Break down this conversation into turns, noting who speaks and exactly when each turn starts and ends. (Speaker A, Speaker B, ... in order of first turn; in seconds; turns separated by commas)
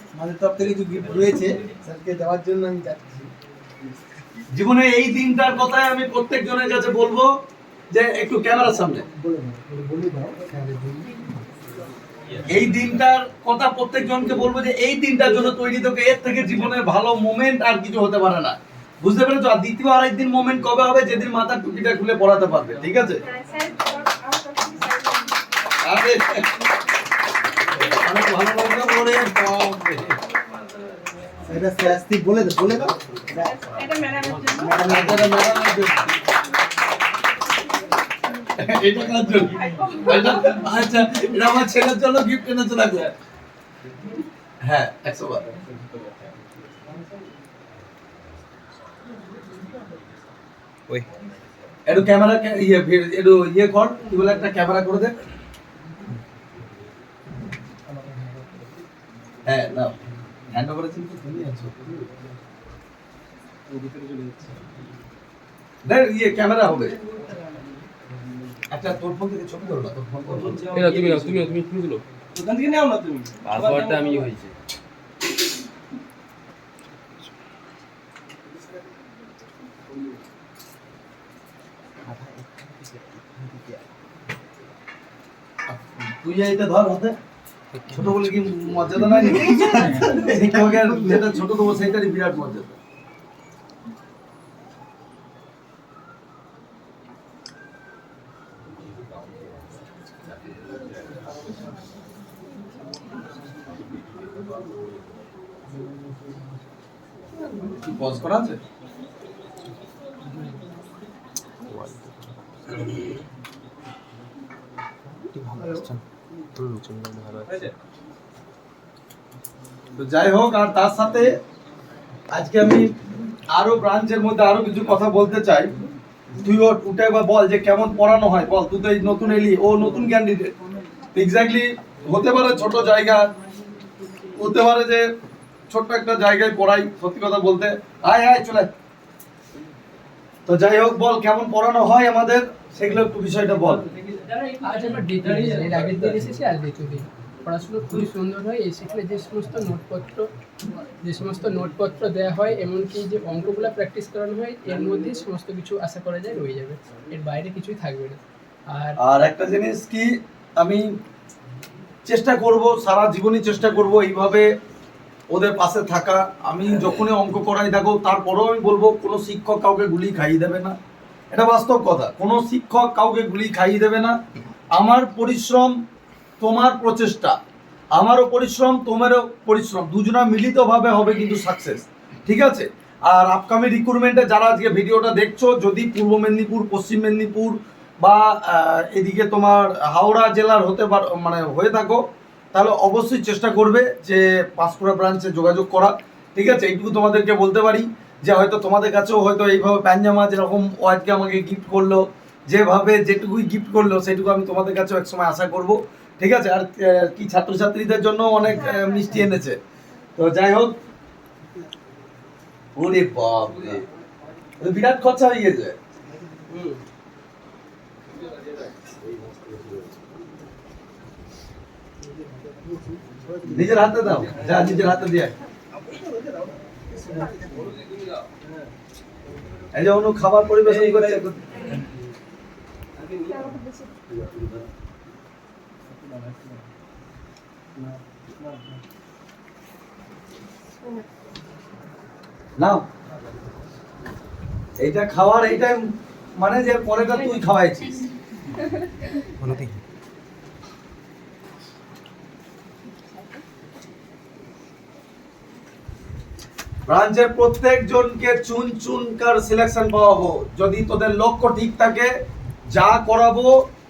Speaker A: 0.1-3.3, Speaker B: 4.5-7.3, Speaker B: 7.9-9.0, Speaker A: 9.0-11.1, Speaker B: 12.5-23.2, Speaker C: 23.2-25.6, Speaker B: 25.8-26.6, Speaker B: 27.7-30.1, Speaker A: 31.5-33.5, Speaker C: 33.4-34.8, Speaker A: 34.6-35.4, Speaker B: 34.8-36.1, Speaker B: 38.5-43.1, Speaker C: 39.5-40.6, Speaker B: 44.6-45.5, Speaker D: 45.7-46.1, Speaker B: 51.9-55.1, Speaker A: 58.0-58.3, Speaker B: 59.5-60.0, Speaker B: 60.5-62.0, Speaker D: 63.7-64.6, Speaker B: 65.8-67.0, Speaker D: 67.1-67.4, Speaker B: 68.7-70.7, Speaker D: 70.3-71.5, Speaker E: 70.7-72.0, Speaker D: 72.3-74.3, Speaker E: 73.4-74.5, Speaker B: 85.7-87.2, Speaker E: 87.7-88.3, Speaker B: 87.9-92.8, Speaker A: 89.2-91.4, Speaker B: 107.7-108.6, Speaker E: 111.7-113.1, Speaker E: 115.3-116.0, Speaker E: 116.6-117.7, Speaker B: 120.0-121.4, Speaker B: 122.3-122.9, Speaker B: 123.5-125.7, Speaker B: 126.4-130.5, Speaker B: 131.2-133.3, Speaker B: 134.4-135.1, Speaker B: 135.7-138.7, Speaker B: 140.5-143.9, Speaker F: 144.5-150.3, Speaker F: 151.0-159.0, Speaker B: 159.0-160.9, Speaker B: 162.1-164.5, Speaker B: 165.3-170.8, Speaker B: 171.3-174.2, Speaker B: 174.7-175.8, Speaker B: 176.4-177.4, Speaker B: 177.9-192.0, Speaker B: 192.5-209.6, Speaker C: 208.5-209.2, Speaker B: 210.2-210.7, Speaker B: 212.8-213.8, Speaker B: 214.6-215.8, Speaker D: 218.8-219.5, Speaker A: 222.9-223.7, Speaker B: 223.5-225.3, Speaker D: 224.3-224.9, Speaker C: 226.9-227.7, Speaker D: 228.4-228.7, Speaker B: 229.7-231.6, Speaker D: 230.6-231.2, Speaker D: 233.0-233.5, Speaker C: 233.2-234.0, Speaker D: 235.9-236.6, Speaker D: 238.4-238.6, Speaker B: 242.6-242.9, Speaker B: 244.8-248.0, Speaker E: 249.4-249.8, Speaker B: 256.9-262.1, Speaker B: 262.7-263.6